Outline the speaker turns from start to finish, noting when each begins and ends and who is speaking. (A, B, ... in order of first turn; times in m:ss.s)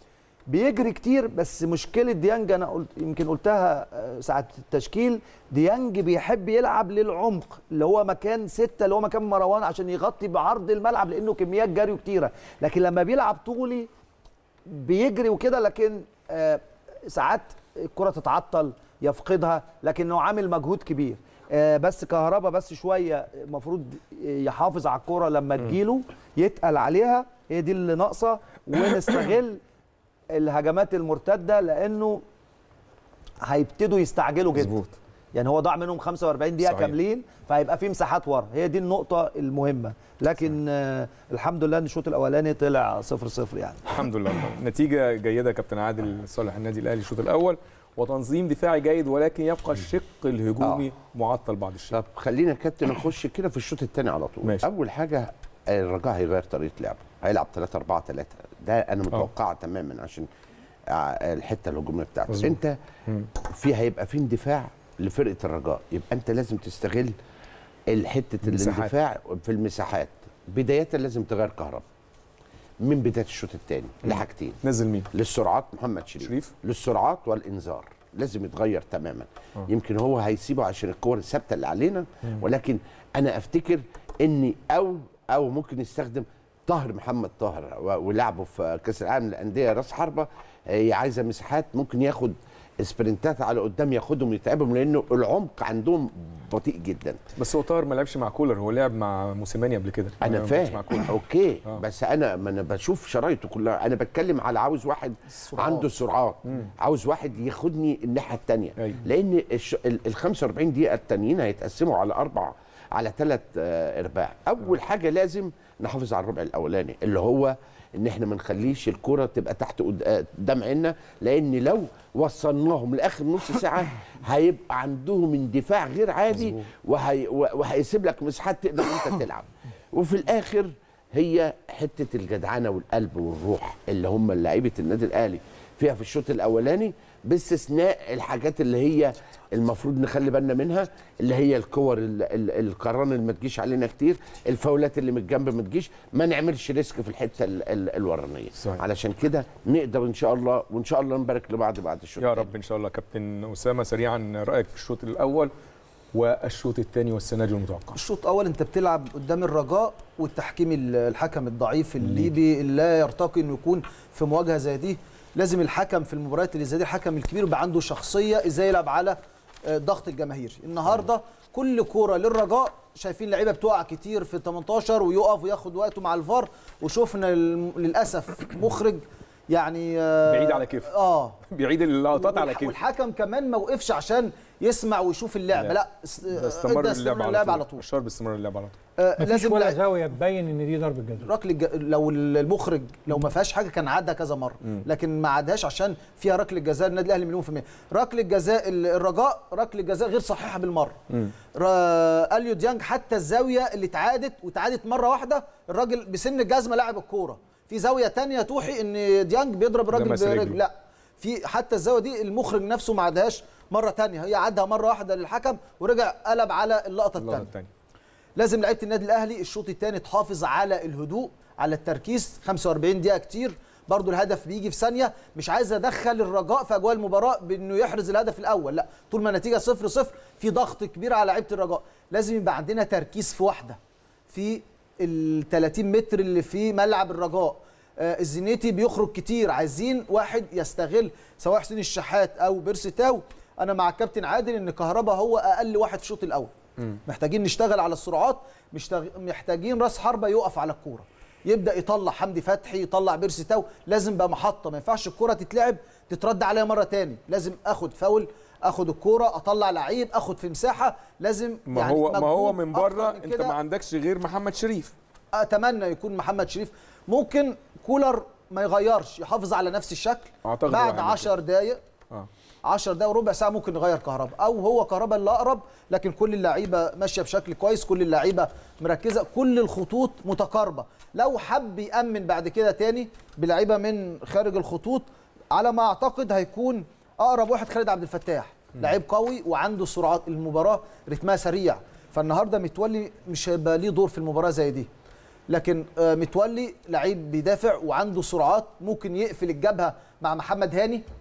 0:00.5-0:13.9 A
0:14.7-0:29.6 A
0:30.3-0:32.2 A
0:33.4-0:34.8 A
0:34.6-0:35.0 B
0:35.3-0:43.9 A
0:36.6-0:37.0 B
0:43.9-0:52.0 B
0:50.6-0:50.9 C
0:51.9-1:00.3 C
1:00.9-1:02.8 C
1:02.3-1:03.3 B
1:03.5-1:07.2 C
1:07.9-1:11.8 C
1:08.4-1:08.9 B
1:12.8-1:14.6 C
1:14.0-1:15.1 B
1:15.1-1:37.2 C
1:16.2-1:16.5 B
1:37.4-1:41.2 B
1:40.2-2:32.5 C
1:45.4-1:46.0 D
2:32.2-2:35.5 B
2:36.1-2:38.0 B
2:38.0-2:49.2 D
2:49.7-3:01.4 D
3:00.3-3:00.9 B
3:01.5-3:02.8 B
3:02.1-3:07.8 D
3:06.3-3:08.8 B
3:09.0-3:09.8 D
3:09.2-3:11.3 E
3:11.2-3:21.0 D
3:21.6-3:37.5 D
3:29.9-3:30.6 B
3:37.2-3:37.7 B
3:38.4-3:53.8 D
3:54.3-4:06.5 D
4:07.1-4:23.6 D
4:21.7-4:24.9 B
4:25.4-4:31.8 D
4:30.4-4:31.3 B
4:32.6-4:54.9 D
4:55.5-5:01.0 D